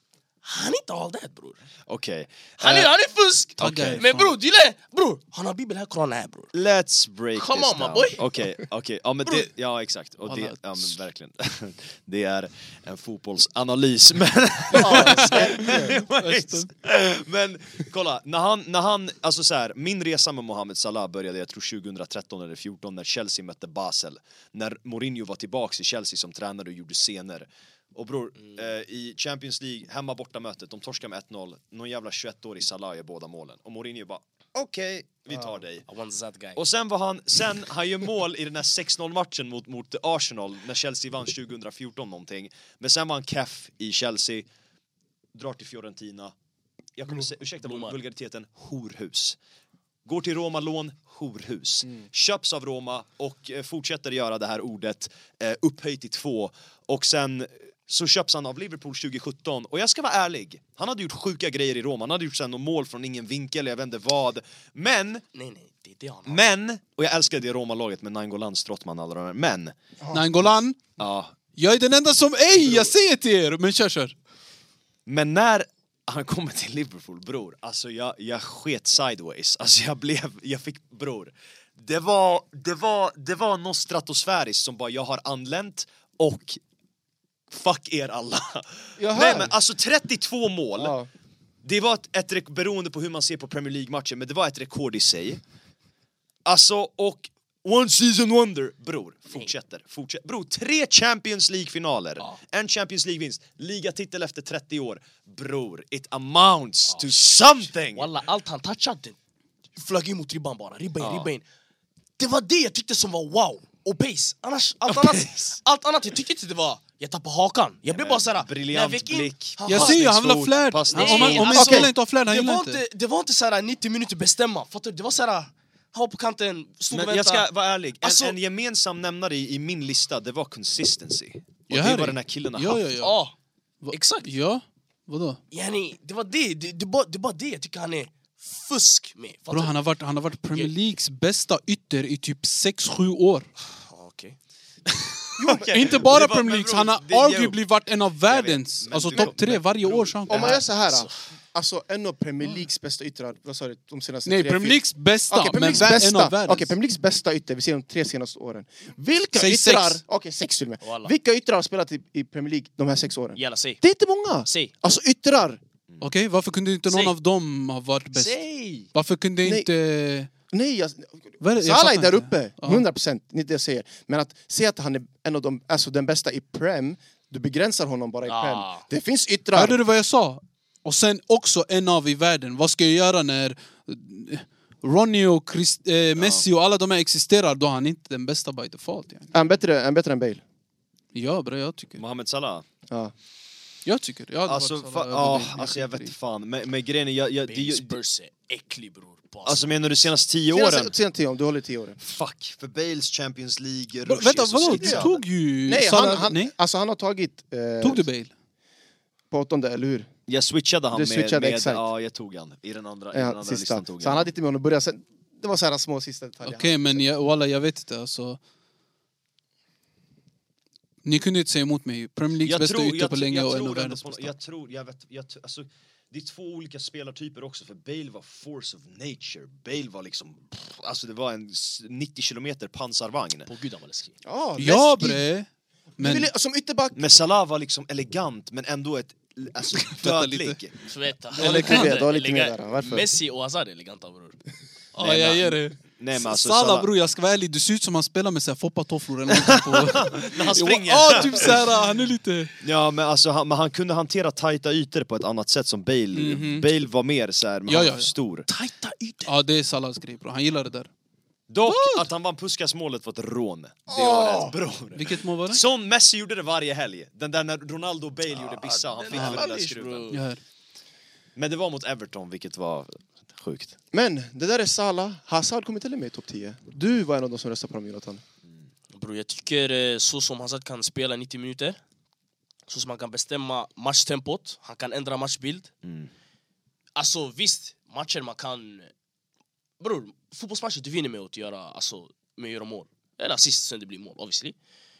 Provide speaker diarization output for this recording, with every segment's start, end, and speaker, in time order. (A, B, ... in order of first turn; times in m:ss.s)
0:00.4-0:01.6 A
0:01.9-0:02.9 B
0:02.6-0:06.5 A
0:03.6-0:04.0 B
0:03.6-0:04.3 C
0:06.5-0:35.8 B
0:07.4-0:08.2 A
0:10.3-0:11.0 C
0:14.7-0:16.0 D
0:14.8-0:16.7 C
0:35.9-0:36.6 A
0:36.6-0:44.5 B
0:45.4-0:46.3 B
0:47.0-0:49.4 B
0:47.6-0:48.0 A
0:50.0-1:05.2 B
1:05.3-1:06.4 A
1:06.3-1:09.8 B
1:10.1-1:10.8 C
1:11.0-1:11.3 B
1:11.6-1:14.2 C
1:15.1-1:26.6 B
1:27.5-1:31.0 B
1:29.0-1:29.5 D
1:30.8-1:31.1 D
1:31.6-1:35.4 B
1:36.4-1:48.1 B
1:46.9-1:49.2 A
1:49.8-1:51.4 A
1:51.0-1:51.3 B
1:52.2-2:00.0 A
1:54.9-1:55.6 B
1:57.9-2:01.6 B
1:59.7-2:02.8 C
2:00.9-2:07.5 A
2:01.6-2:01.9 D
2:06.9-2:12.8 B
2:08.0-2:08.4 A
2:11.7-2:13.2 C
2:13.0-2:13.3 A
2:13.8-2:15.4 C
2:13.9-2:14.3 A
2:15.5-2:19.8 A
2:19.5-2:23.5 C
2:23.8-2:24.4 A
2:24.9-2:27.6 B
2:25.4-2:26.0 D
2:25.7-2:30.6 C
2:28.3-2:30.6 B
2:30.3-2:45.6 D
2:30.3-2:31.2 A
2:34.3-2:36.7 C
2:39.3-2:40.0 C
2:40.8-2:41.1 A
2:43.4-2:43.8 A
2:44.5-2:44.7 A
2:46.0-2:48.4 C
2:46.9-2:47.1 A
2:48.1-2:48.9 A
2:48.9-2:50.3 C
2:49.4-2:49.7 D
2:50.5-2:59.8 D
2:51.4-2:52.8 C
2:58.3-2:58.8 A
2:59.5-3:09.3 C
3:06.2-3:06.4 B
3:09.3-3:10.4 D
3:11.1-3:12.0 C
3:12.0-3:12.6 B
3:13.8-3:16.1 C
3:14.5-3:18.0 B
3:17.5-3:19.8 A
3:19.4-3:20.9 B
3:20.5-3:22.0 D
3:22.0-3:25.2 B
3:24.0-3:26.5 C
3:24.7-3:25.1 D
3:25.7-3:28.0 D
3:27.8-3:28.3 C
3:29.3-3:30.1 D
3:30.3-3:34.3 B
3:30.9-3:31.8 D
3:33.1-3:37.0 D
3:36.4-3:38.4 C
3:41.0-3:44.4 C
3:42.4-3:53.5 B
3:53.5-3:54.2 A
3:54.2-3:55.2 D
3:54.6-3:55.5 C
3:56.0-3:56.3 C
3:56.0-3:57.0 D
3:57.0-4:00.8 B
3:59.8-4:00.6 C
4:00.9-4:04.4 A
4:01.3-4:03.1 D
4:01.4-4:02.0 C
4:05.0-4:12.5 C
4:05.0-4:06.9 B
4:09.3-4:11.7 B
4:12.6-4:18.5 B
4:16.1-4:16.7 C
4:17.7-4:18.1 C
4:18.5-4:19.3 A
4:19.3-4:20.9 C
4:21.5-4:30.1 B
4:21.6-4:22.1 C
4:23.9-4:24.6 D
4:24.9-4:25.6 C
4:28.3-4:30.2 A
4:29.1-4:29.4 C
4:30.1-4:30.4 C
4:31.4-4:33.8 B
4:33.9-4:38.2 D
4:38.9-4:41.8 A
4:42.7-4:45.7 A
4:45.8-4:46.1 B
4:47.0-4:48.9 A
4:49.8-4:54.6 A